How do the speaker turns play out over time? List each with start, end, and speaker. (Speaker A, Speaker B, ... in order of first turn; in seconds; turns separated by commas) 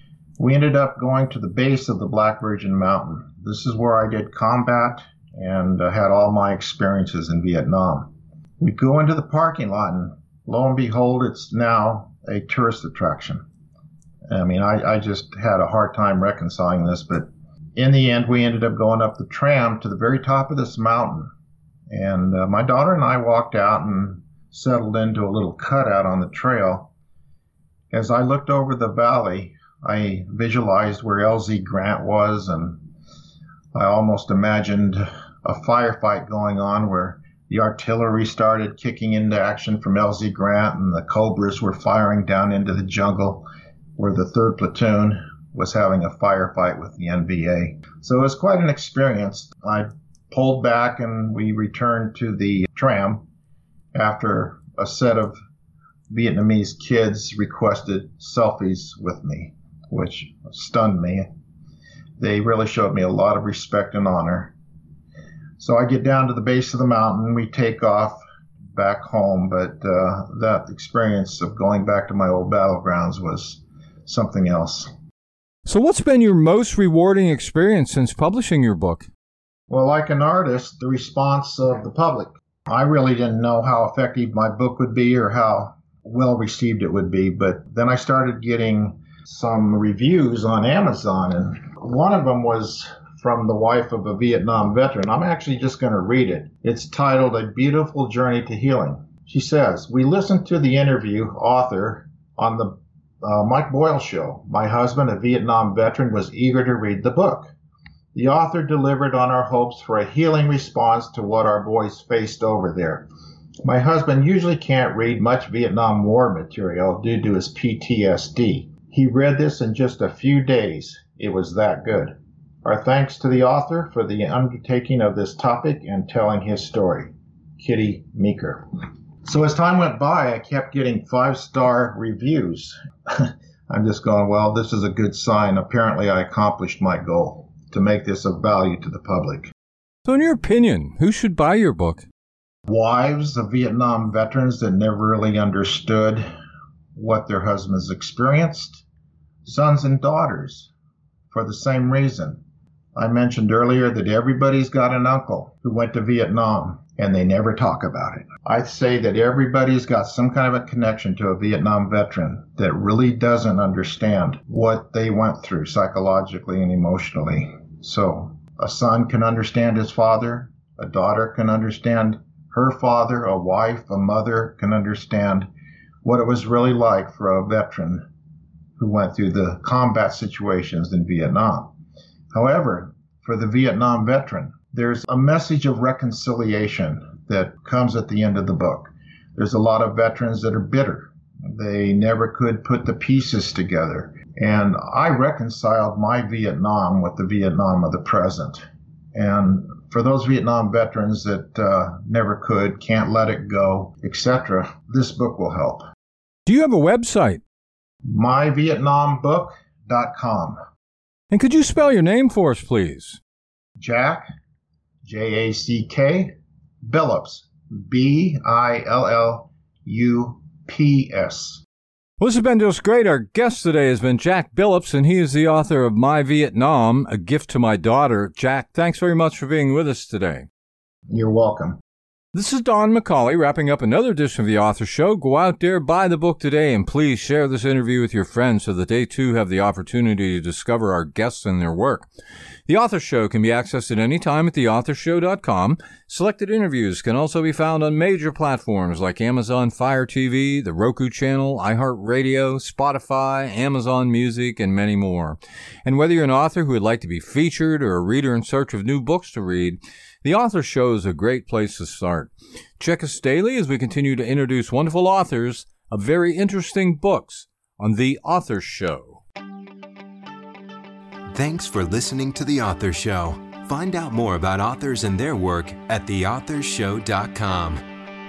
Speaker A: 0.4-13.4, Speaker A: 14.3-21.3, Speaker A: 21.9-26.9, Speaker A: 27.9-32.8, Speaker A: 33.7-43.5, Speaker A: 44.0-53.2, Speaker A: 53.9-55.4, Speaker A: 56.1-61.3, Speaker A: 62.2-64.5, Speaker A: 65.6-68.2, Speaker A: 68.7-74.9, Speaker B: 75.7-79.1, Speaker A: 79.7-107.5, Speaker A: 108.1-113.1, Speaker A: 113.6-128.6, Speaker A: 129.2-139.5, Speaker B: 140.1-142.1, Speaker A: 142.7-146.2, Speaker A: 146.9-148.8, Speaker A: 149.4-150.7, Speaker A: 151.3-152.4, Speaker A: 152.9-175.5, Speaker A: 176.0-178.1, Speaker A: 178.8-181.7, Speaker A: 182.3-198.6, Speaker A: 199.1-205.9, Speaker B: 206.5-207.4, Speaker A: 208.1-210.6, Speaker B: 211.3-213.2, Speaker A: 213.8-214.2, Speaker A: 215.0-221.6, Speaker B: 222.2-230.5, Speaker A: 231.1-231.8, Speaker B: 232.3-242.1, Speaker B: 242.7-269.2, Speaker C: 271.3-277.8